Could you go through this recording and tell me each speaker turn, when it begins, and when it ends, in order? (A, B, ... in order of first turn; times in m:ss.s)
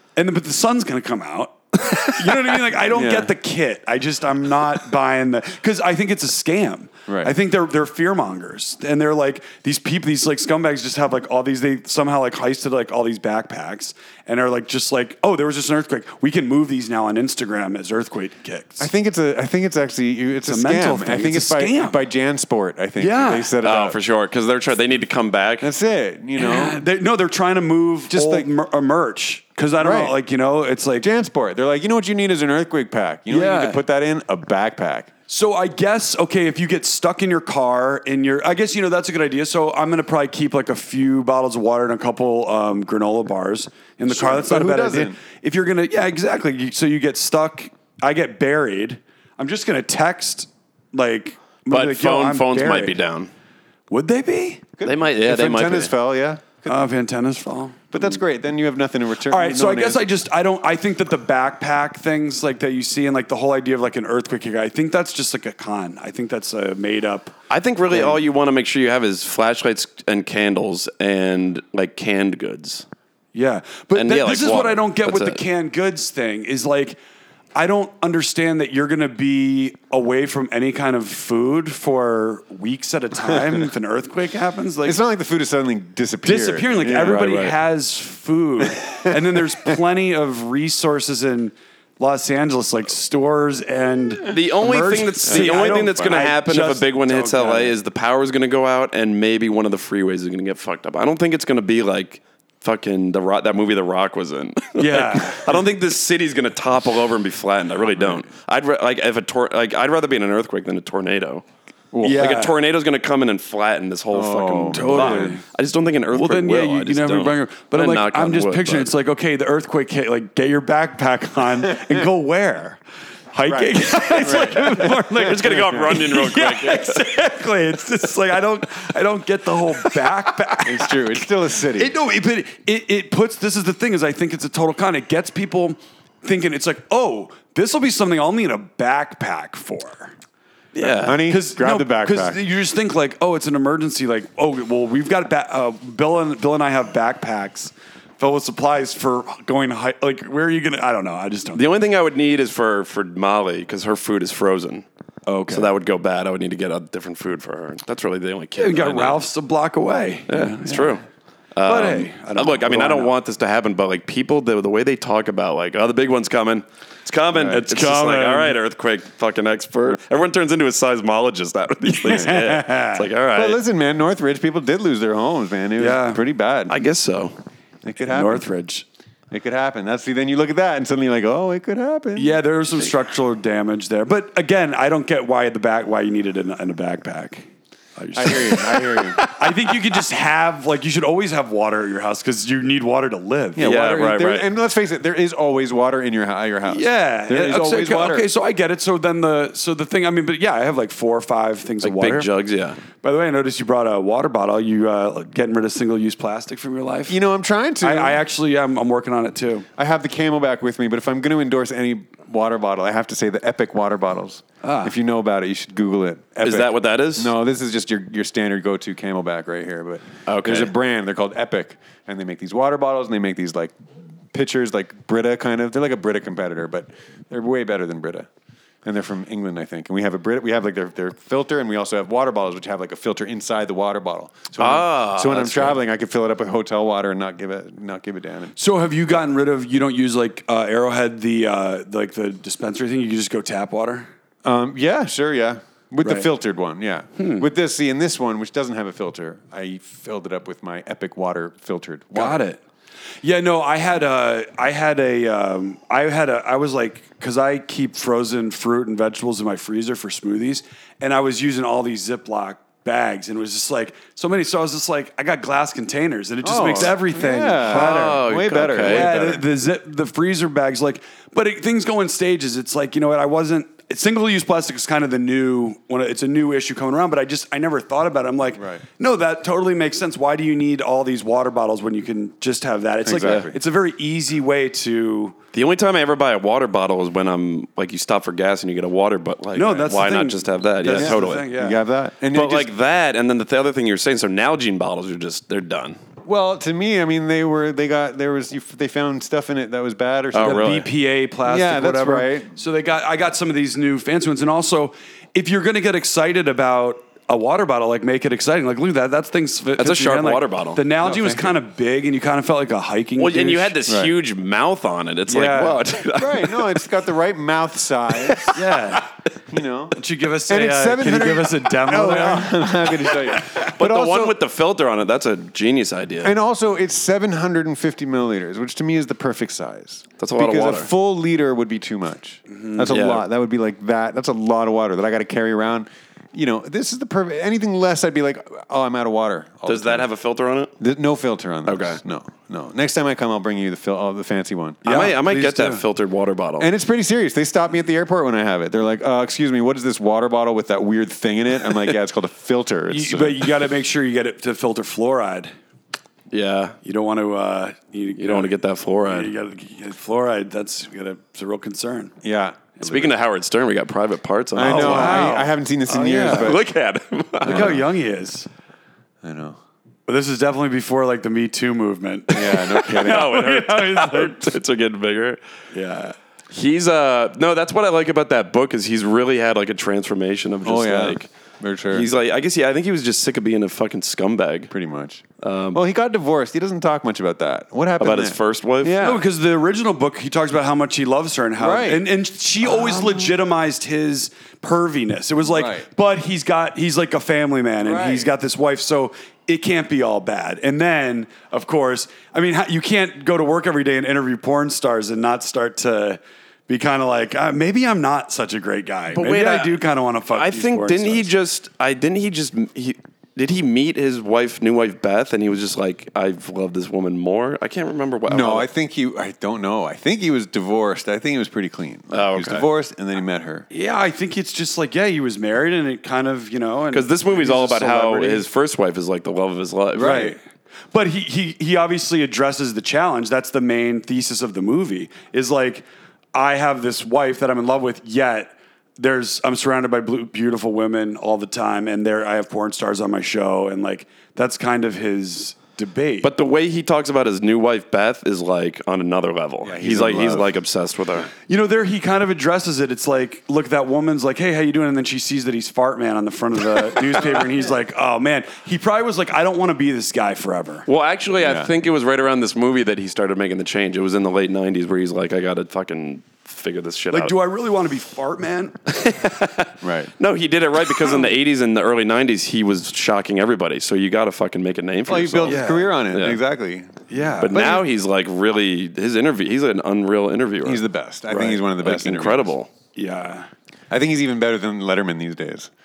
0:00.2-0:18.9 A
0:02.9-0:03.3 B
0:07.1-0:07.3 B
0:18.8-0:24.0 B
0:20.5-0:22.0 A
0:23.0-0:23.5 A
0:23.6-0:25.7 C
0:25.6-0:26.8 B
0:26.4-0:31.1 A
0:28.1-0:28.5 B
0:29.8-0:30.2 B
0:31.0-0:35.1 B
0:33.3-0:33.8 A
0:35.3-0:53.0 A
0:44.1-0:45.2 B
0:51.7-0:53.3 C
0:53.9-0:54.6 A
0:54.8-0:56.8 B
0:54.8-0:55.9 C
0:56.7-0:57.8 A
0:57.9-1:00.1 B
0:59.3-1:07.3 A
1:07.5-1:12.8 C
1:07.9-1:08.2 A
1:13.3-1:17.0 A
1:13.9-1:15.4 C
1:17.5-1:25.0 A
1:23.3-1:23.6 B
1:24.8-1:27.2 B
1:26.2-1:37.8 A
1:27.0-1:27.6 C
1:28.8-1:29.8 B
1:34.3-1:51.4 C
1:35.3-1:36.3 B
1:44.8-1:45.6 A
1:51.9-1:52.3 B
1:52.0-1:52.5 A
1:52.1-1:58.9 C
1:54.1-1:55.4 B
1:54.7-1:55.4 A
1:56.1-2:02.8 A
2:01.7-2:02.0 B
2:03.3-2:11.2 A
2:03.4-2:05.1 B
2:05.1-2:07.0 C
2:10.6-2:11.9 B
2:11.7-2:20.1 A
2:20.7-2:21.2 C
2:20.8-2:31.7 A
2:20.8-2:22.4 B
2:31.5-2:34.8 C
2:35.3-2:35.7 A
2:35.5-2:39.2 C
2:38.6-2:41.0 A
2:40.3-2:41.0 C
2:41.5-2:53.6 C
2:41.6-2:43.1 A
2:47.4-2:47.6 B
2:47.5-2:48.6 A
2:51.9-2:53.0 A
2:52.1-2:52.4 B
2:53.3-2:56.8 B
2:55.8-2:56.2 A
2:56.7-2:57.3 C
2:57.8-2:58.4 B
2:58.1-2:58.8 A
2:59.3-3:02.4 B
3:02.2-3:13.7 A
3:08.1-3:09.3 B
3:13.6-3:18.3 B
3:13.6-3:14.4 C
3:16.7-3:22.3 A
3:21.8-3:22.8 C
3:23.0-3:27.2 A
3:27.1-3:28.2 B
3:27.8-3:29.7 A
3:29.8-3:43.7 B
3:34.6-3:34.9 A
3:36.4-3:37.3 C
3:40.2-3:40.7 C
3:44.3-3:48.3 B
3:48.8-3:58.5 B
3:54.6-3:55.8 C
3:58.6-4:04.1 A
4:04.4-4:12.4 B
4:06.0-4:06.3 A
4:07.2-4:07.4 A
4:12.1-4:12.6 A
4:13.2-4:28.2 A
4:26.4-4:29.4 B
4:27.6-4:29.1 C
4:28.8-4:45.4 A
4:38.6-4:38.8 B
4:43.0-4:43.6 B
4:45.5-4:51.5 C
4:49.5-4:51.8 A
4:50.9-4:52.7 B
4:52.3-4:56.0 C
4:56.2-5:00.7 B
5:00.3-5:00.9 C
5:00.4-5:13.8 A
5:01.4-5:02.5 B
5:09.8-5:10.8 C
5:11.0-5:11.5 B
5:13.2-5:16.8 C
5:13.8-5:14.1 B
5:15.3-5:15.8 A
5:16.1-5:18.6 B
5:18.2-5:18.6 C
5:18.5-5:19.0 A
5:19.5-5:24.4 B
5:20.0-5:23.5 A
5:23.7-5:26.3 C
5:26.2-5:40.1 B
5:30.2-5:30.9 C
5:32.5-5:32.8 A
5:32.9-5:33.2 C
5:39.6-5:40.7 C
5:40.8-5:44.8 B
5:41.6-5:42.0 C
5:44.8-5:45.8 A
5:44.8-5:46.7 C
5:46.6-5:53.5 B
5:52.9-5:55.5 A
5:56.3-5:56.8 C
5:56.8-5:58.5 A
5:58.2-5:59.3 C
5:59.1-6:02.1 A
6:02.2-6:03.1 B
6:02.8-6:05.4 C
6:04.5-6:06.6 B
6:04.6-6:06.5 A
6:06.2-6:07.8 C
6:07.4-6:08.5 A
6:07.4-6:07.8 B
6:09.2-6:09.6 B
6:10.1-6:14.6 A
6:12.3-6:13.3 B
6:12.3-6:15.4 C
6:15.7-6:16.2 A
6:16.5-6:21.3 C
6:20.6-6:22.1 B
6:21.9-6:24.7 C
6:24.7-6:29.2 B
6:25.4-6:25.8 C
6:28.0-6:29.0 C
6:29.0-6:51.3 A
6:31.6-6:32.0 B
6:32.6-6:33.2 B
6:35.4-6:35.9 B
6:37.8-6:38.3 B
6:49.1-6:49.8 C
6:50.3-6:58.7 C
6:58.3-7:03.7 B
7:02.1-7:02.6 C
7:03.7-7:08.4 A
7:06.9-7:10.3 C
7:10.0-7:10.4 B
7:10.0-7:10.4 A
7:10.9-7:26.3 A
7:26.2-7:31.3 C
7:29.6-7:30.5 B
7:31.5-7:40.9 A
7:40.9-7:47.3 C
7:41.4-7:41.7 B
7:47.1-7:49.1 A
7:48.9-7:56.4 C
7:49.8-7:50.1 B
7:55.1-7:56.9 B
7:55.5-7:55.9 A
7:57.1-7:57.8 A
7:57.4-8:02.7 C
8:00.6-8:02.5 B
8:03.0-8:03.5 A
8:03.9-8:05.7 B